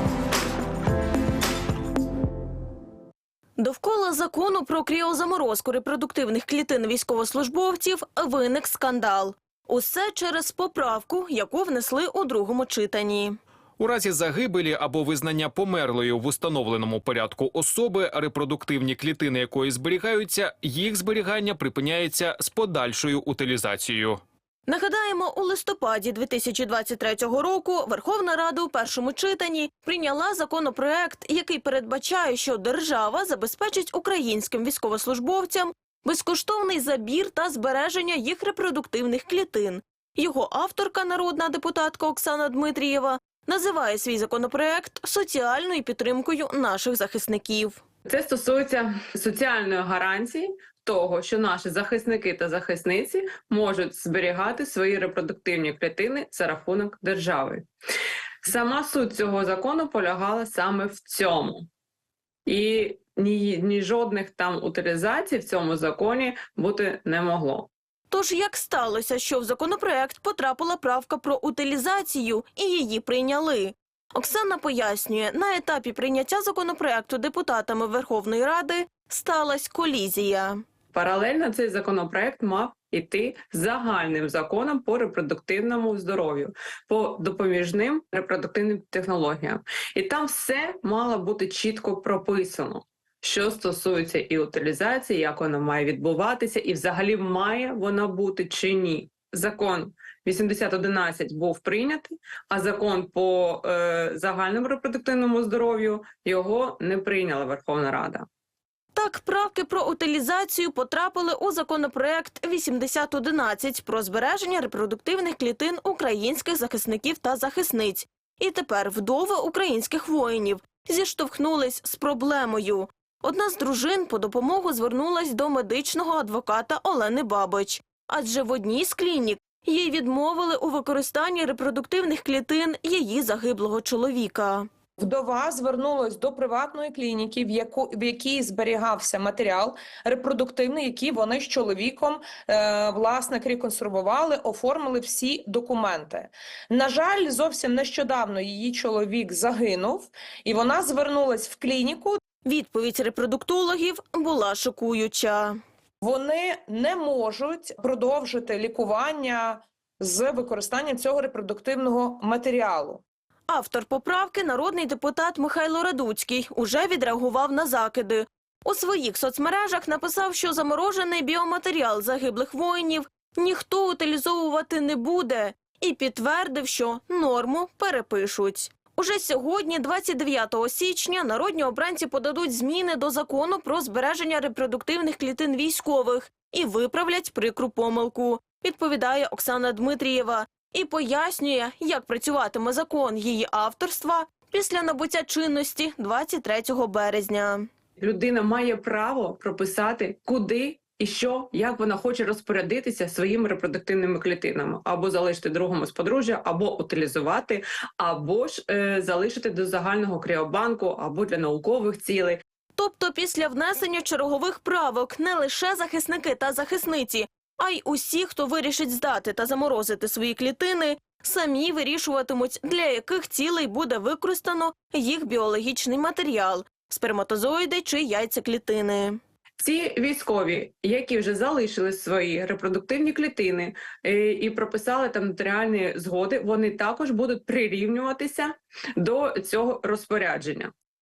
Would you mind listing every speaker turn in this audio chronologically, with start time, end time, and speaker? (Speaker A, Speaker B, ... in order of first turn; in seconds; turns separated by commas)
Speaker A: 3.6-13.4, Speaker B: 13.8-24.2, Speaker A: 24.7-47.8, Speaker C: 48.0-57.7, Speaker C: 58.4-61.7, Speaker C: 62.5-67.7, Speaker A: 68.1-80.6, Speaker C: 80.9-108.2, Speaker A: 108.9-134.7, Speaker D: 135.0-152.2, Speaker A: 152.4-155.6, Speaker D: 156.0-163.0, Speaker A: 163.5-197.7, Speaker C: 198.0-212.4, Speaker A: 212.8-229.2, Speaker C: 229.6-240.7